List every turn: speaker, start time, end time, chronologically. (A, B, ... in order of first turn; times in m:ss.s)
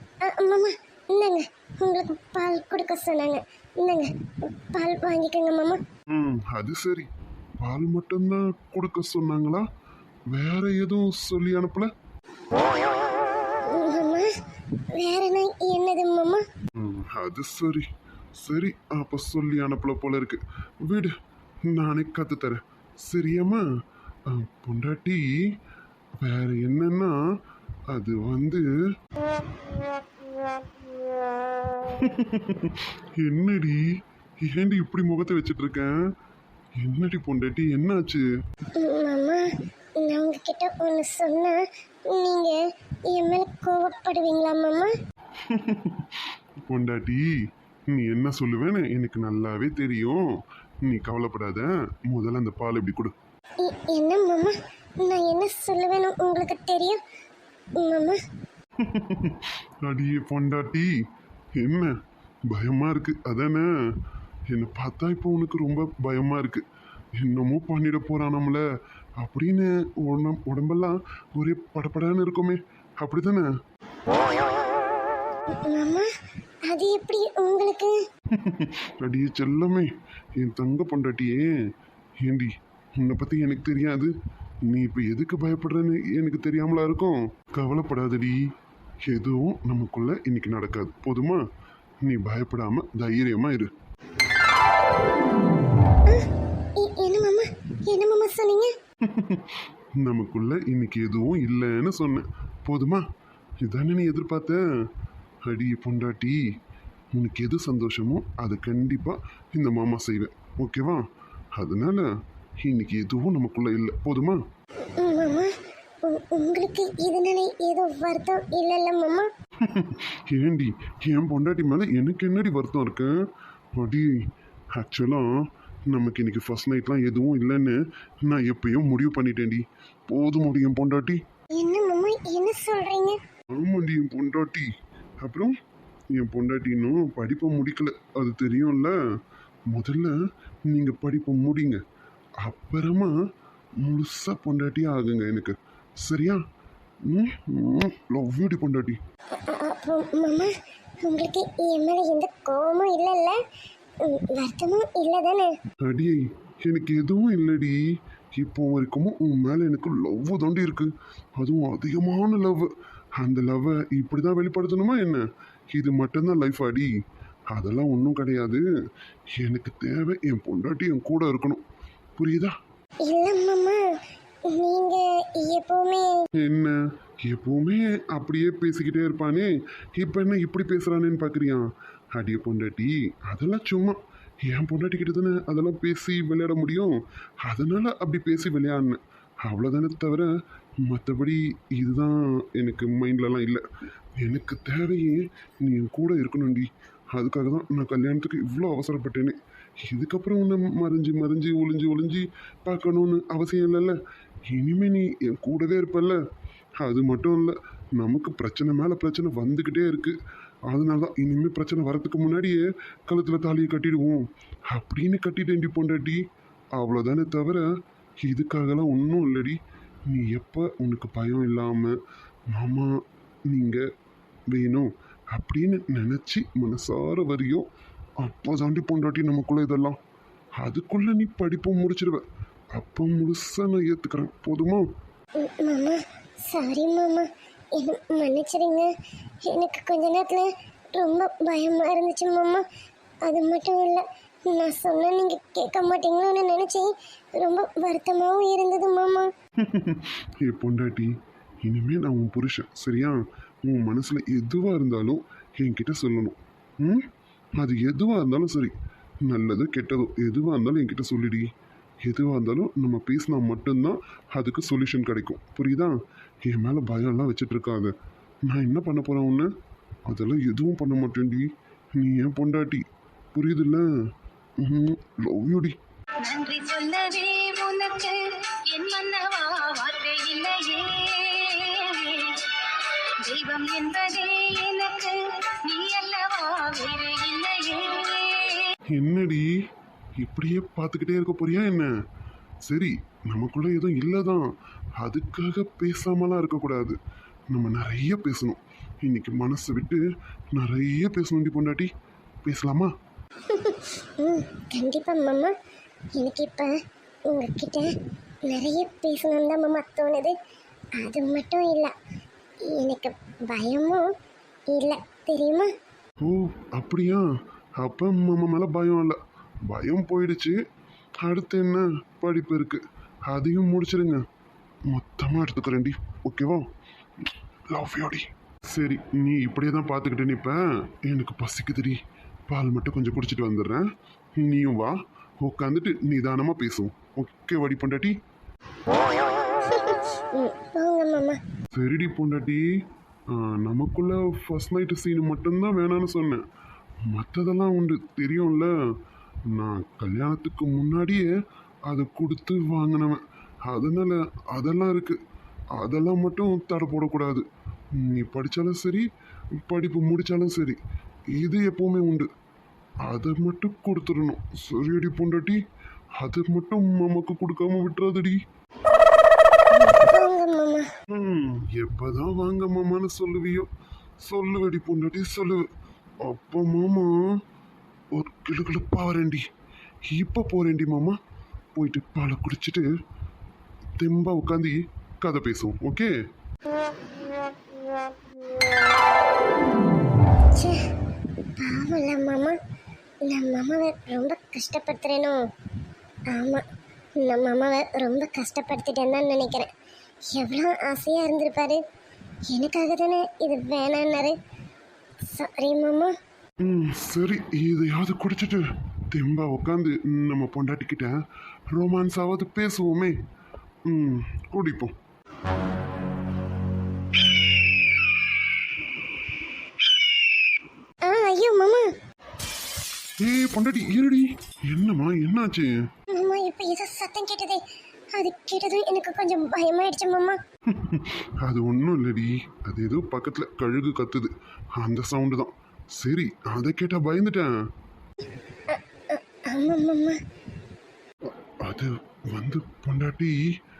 0:00.2-0:05.8 A
0:06.1-0:09.6 B
0:10.3-0:11.9 B
0:13.6-0:14.3 A
0:14.9-0:16.4 A
0:16.8-0:17.9 B
0:18.4-0:21.1 B
0:21.6-0:23.6 B
0:24.3-0:25.4 B
0:26.2-0:27.2 B
0:27.9-0:28.7 B
0:31.8-0:33.8 B
0:34.4-0:36.0 B
0:36.8-0:38.2 B
0:38.8-0:39.4 A
0:40.0-0:41.6 A
0:42.1-0:44.9 A
0:45.4-0:47.3 B
0:47.9-0:50.2 B
0:50.8-0:53.1 B
0:53.6-0:57.0 A
0:57.8-0:58.2 A
0:58.8-1:00.9 B
1:01.6-1:02.0 B
1:02.5-1:03.7 B
1:04.5-1:06.6 B
1:07.2-1:08.6 B
1:09.2-1:13.5 B
1:15.6-1:16.1 A
1:16.7-1:17.9 A
1:18.3-1:21.5 B
1:22.2-1:24.1 B
1:24.6-1:28.4 B
1:29.1-1:31.4 B
1:32.0-1:33.7 B
1:36.8-1:38.7 A
1:39.0-1:43.0 B
1:43.6-1:44.6 B
1:45.4-1:46.4 B
1:47.1-1:51.0 B
1:51.5-1:52.1 B
1:52.6-1:54.4 B
1:54.9-1:55.5 A
1:56.0-1:59.3 A
1:59.6-2:03.2 B
2:03.8-2:04.1 B
2:04.7-2:05.2 B
2:05.9-2:11.2 B
2:11.6-2:13.2 A
2:13.5-2:14.7 B
2:15.2-2:15.5 B
2:16.1-2:18.9 B
2:19.7-2:20.2 B
2:20.7-2:21.8 B
2:22.4-2:23.1 B
2:23.8-2:26.4 B
2:27.1-2:29.0 B
2:29.4-2:30.5 A
2:31.0-2:33.4 A
2:34.0-2:35.5 A
2:35.8-2:37.8 B
2:38.4-2:46.9 B
2:47.5-2:48.6 B
2:49.4-2:51.6 B
2:52.2-2:52.6 B
2:53.0-2:53.8 A
2:54.5-2:56.1 A
2:56.4-3:13.6 B
3:14.2-3:26.2 B
3:26.8-3:30.2 B
3:30.7-3:36.2 B
3:36.7-3:37.7 B
3:38.2-3:41.9 B
3:42.5-3:42.9 B
3:43.5-3:43.8 B
3:44.5-3:47.6 B
3:48.2-3:50.0 B
3:50.6-3:54.8 B
3:55.4-3:58.9 A
3:59.5-4:02.6 A
4:03.2-4:09.3 A
4:09.6-4:11.1 B
4:11.6-4:17.1 B
4:17.6-4:21.5 B
4:22.0-4:27.9 B
4:28.4-4:29.5 B
4:30.1-4:33.9 B
4:34.6-4:35.8 B
4:36.2-4:48.7 C
4:48.9-4:49.5 B
4:50.2-4:51.9 B
4:52.6-4:57.0 B
4:57.5-5:00.0 B
5:00.5-5:01.9 B
5:02.4-5:02.9 B
5:03.5-5:05.5 A
5:06.2-5:06.7 A
5:07.3-5:07.9 A
5:08.5-5:10.3 A
5:11.0-5:11.9 A
5:12.7-5:14.1 A
5:14.7-5:15.7 A
5:16.2-5:17.2 B
5:17.8-5:20.6 B
5:21.2-5:24.2 B
5:24.9-5:26.6 B
5:27.2-5:33.9 B
5:34.4-5:38.1 B
5:39.6-5:41.4 A
5:41.7-5:42.6 B
5:43.3-5:46.4 B
5:47.0-5:48.7 B
5:49.5-5:51.3 B
5:51.9-5:55.2 B
5:55.7-6:00.8 B
6:01.3-6:02.3 B
6:03.0-6:05.6 B
6:06.2-6:08.4 B
6:09.7-6:10.9 A
6:11.1-6:13.7 B
6:14.2-6:15.6 B
6:16.2-6:17.2 B
6:18.1-6:19.4 B
6:20.1-6:21.2 B
6:21.7-6:22.9 B
6:24.0-6:26.1 B
6:31.4-6:32.6 A
6:33.2-6:35.4 A
6:36.3-6:36.6 A
6:37.2-6:39.7 A
6:40.3-6:41.8 A
6:42.5-6:44.4 A
6:45.3-6:46.1 A
6:46.6-6:51.2 B
6:51.7-6:53.2 B
6:53.9-6:54.9 B
7:01.0-7:01.9 A
7:03.2-7:05.7 B
7:06.1-7:07.6 A
7:08.2-7:10.4 A
7:10.7-7:17.5 B
7:18.7-7:20.2 A
7:21.2-7:23.4 B